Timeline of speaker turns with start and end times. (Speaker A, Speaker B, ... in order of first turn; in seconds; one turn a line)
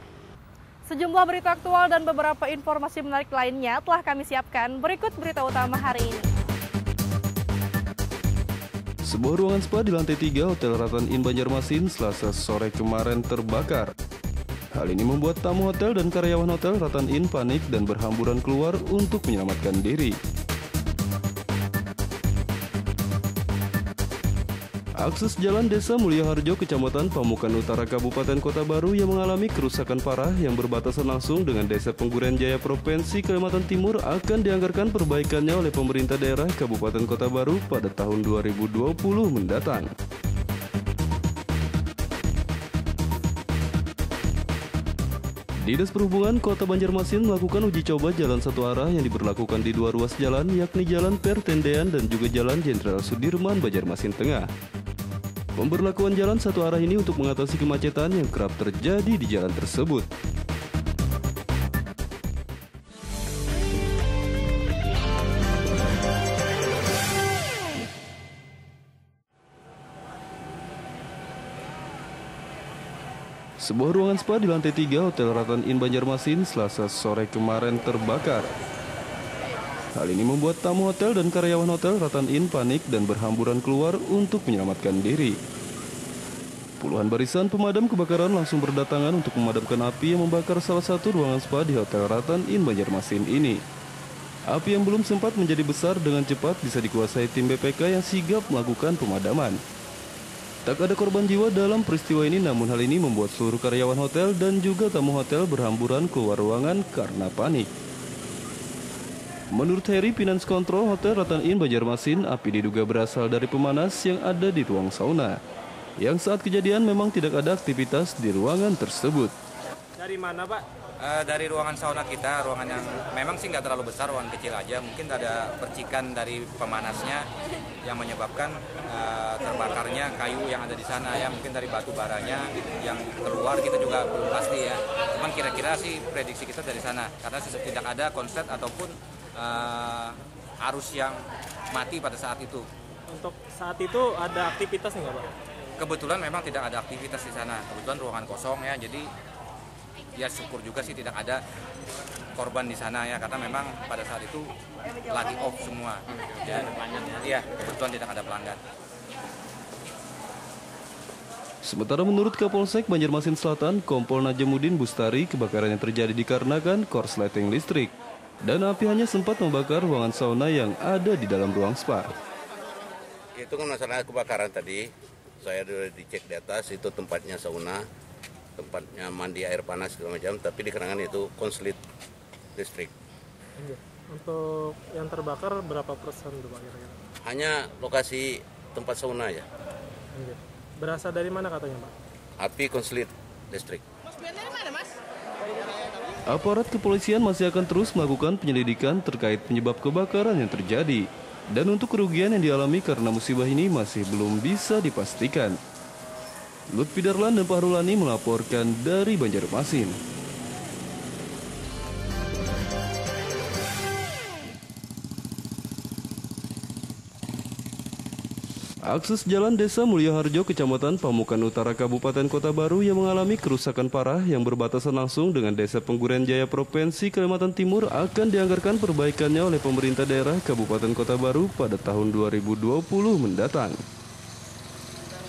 Speaker A: 0.9-6.3
Speaker B: 9.1-13.9
Speaker B: 14.8-20.2
Speaker B: 25.0-39.9
Speaker B: 45.6-54.5
Speaker B: 55.6-60.1
Speaker B: 73.6-78.5
Speaker B: 80.0-85.4
Speaker B: 86.8-93.6
Speaker B: 94.5-99.6
Speaker B: 100.7-107.7
Speaker B: 109.5-115.4
Speaker B: 116.0-119.3
Speaker C: 120.0-120.7
Speaker D: 121.0-127.3
Speaker D: 127.8-141.2
Speaker D: 141.7-142.7
Speaker C: 143.1-145.3
Speaker D: 145.8-149.1
Speaker D: 150.2-151.4
Speaker D: 152.4-154.5
Speaker D: 155.1-158.6
Speaker B: 161.7-167.9
Speaker B: 168.4-172.1
Speaker E: 173.4-174.9
Speaker E: 175.4-177.8
Speaker E: 178.6-181.8
Speaker E: 182.6-182.9
Speaker C: 183.6-187.0
Speaker E: 187.2-189.4
Speaker C: 190.2-191.9
Speaker E: 192.4-193.8
Speaker B: 196.3-205.6
Speaker B: 206.7-210.0
Speaker B: 218.9-233.8